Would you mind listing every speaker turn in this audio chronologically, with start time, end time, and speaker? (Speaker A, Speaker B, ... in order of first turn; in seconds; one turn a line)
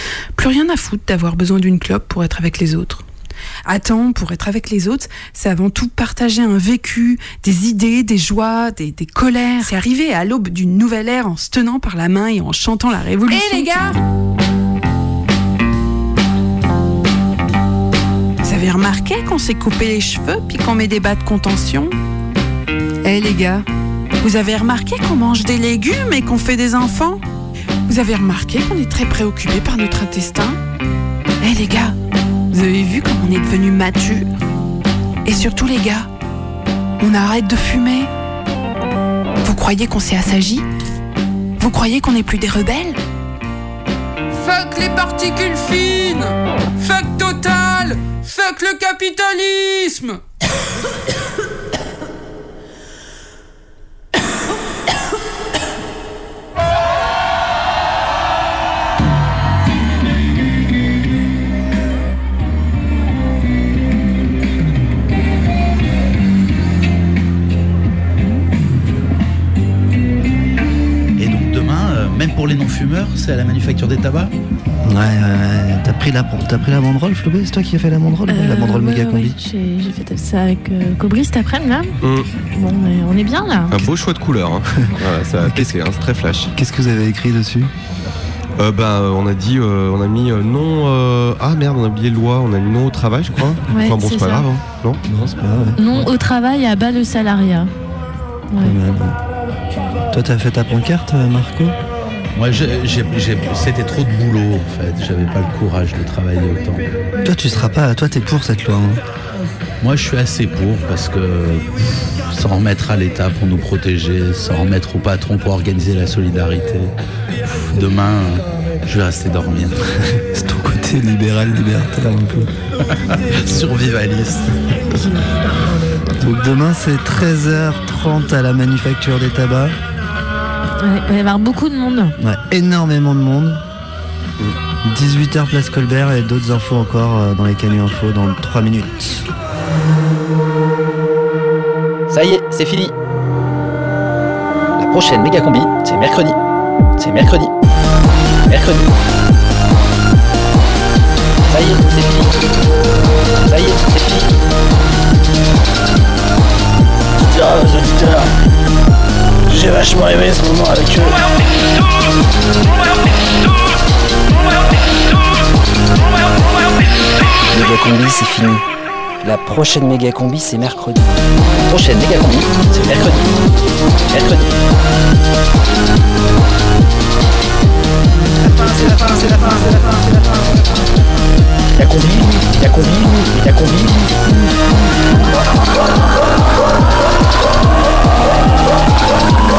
Speaker A: 0.3-3.0
Speaker A: 3.6-14.0
Speaker A: 18.4-21.9
Speaker A: 23.0-23.6
Speaker A: 24.2-27.2
Speaker A: 27.9-30.6
Speaker A: 31.4-31.9
Speaker A: 32.5-34.3
Speaker A: 35.2-36.1
Speaker A: 37.0-38.1
Speaker A: 39.4-40.6
Speaker A: 41.6-43.0
Speaker B: 44.3-50.2
Speaker C: 71.2-74.3
Speaker D: 74.8-79.3
Speaker E: 78.3-83.8
Speaker F: 82.0-82.3
Speaker F: 83.7-86.5
Speaker D: 85.4-85.8
Speaker D: 86.5-87.7
Speaker F: 88.6-95.4
Speaker E: 93.7-94.5
Speaker D: 95.2-95.8
Speaker E: 95.8-97.7
Speaker E: 98.5-98.8
Speaker D: 98.6-99.2
Speaker D: 100.1-101.8
Speaker C: 102.3-106.8
Speaker D: 107.2-109.0
Speaker C: 109.8-111.7
Speaker C: 112.3-116.9
Speaker C: 117.7-119.7
Speaker D: 120.3-122.5
Speaker C: 123.4-124.5
Speaker D: 126.2-129.8
Speaker E: 130.8-132.1
Speaker D: 132.2-133.6
Speaker D: 134.8-139.3
Speaker G: 142.1-142.9
Speaker G: 144.8-146.4
Speaker G: 147.0-147.5
Speaker G: 148.4-148.9
Speaker G: 151.5-152.3
Speaker G: 153.4-154.3
Speaker G: 167.5-168.6
Speaker G: 169.2-170.9
Speaker G: 171.7-173.3
Speaker G: 174.1-174.5
Speaker G: 178.5-179.7
Speaker G: 181.8-184.3